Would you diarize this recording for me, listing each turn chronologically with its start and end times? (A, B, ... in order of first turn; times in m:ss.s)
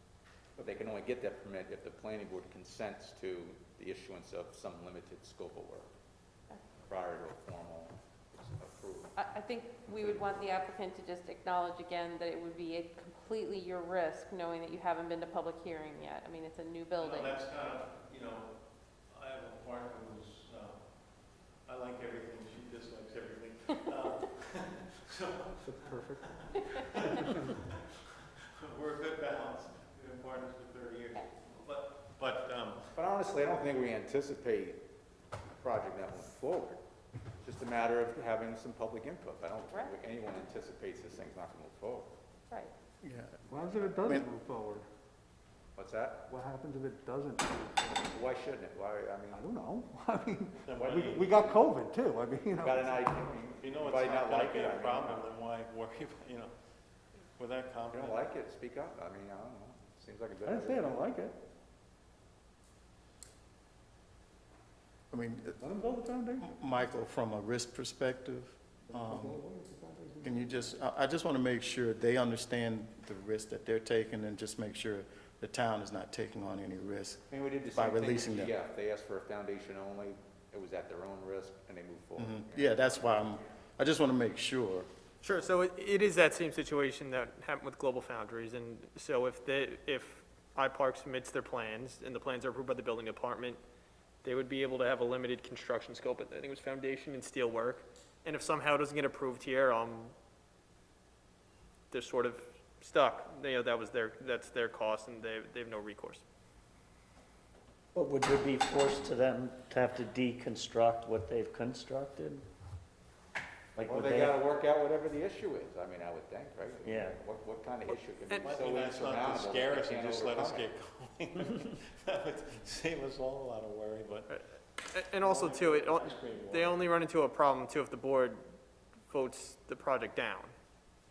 0:00.6-0:05.9 A
0:06.9-0:09.1 A
0:09.2-0:17.4 B
0:17.0-0:27.7 C
0:28.6-0:32.9 C
0:33.0-0:34.8 A
0:35.6-0:36.8 A
0:37.4-0:42.1 A
0:43.0-0:44.3 D
0:43.5-0:44.8 E
0:45.8-0:46.3 A
0:46.3-0:48.1 E
0:48.0-0:49.4 A
0:49.3-0:53.0 E
0:50.6-0:51.4 C
0:50.8-0:51.6 A
0:52.6-0:55.3 A
0:53.6-0:56.5 C
0:57.4-0:58.2 C
0:57.9-1:01.0 A
1:00.4-1:01.4 E
1:05.1-1:05.6 D
1:05.6-1:06.5 E
1:06.4-1:09.4 D
1:08.9-1:10.6 E
1:10.2-1:18.5 D
1:17.3-1:23.4 A
1:22.2-1:24.9 D
1:25.2-1:33.6 F
1:34.2-1:40.1 F
1:41.9-1:46.2 F
1:48.0-1:52.4 G
1:53.9-2:00.7 A
1:53.9-1:54.2 G
1:56.9-1:57.1 G
1:58.3-1:58.6 F
1:58.4-2:04.3 C
2:04.3-2:08.5 F
2:05.1-2:06.9 C
2:09.1-2:10.5 F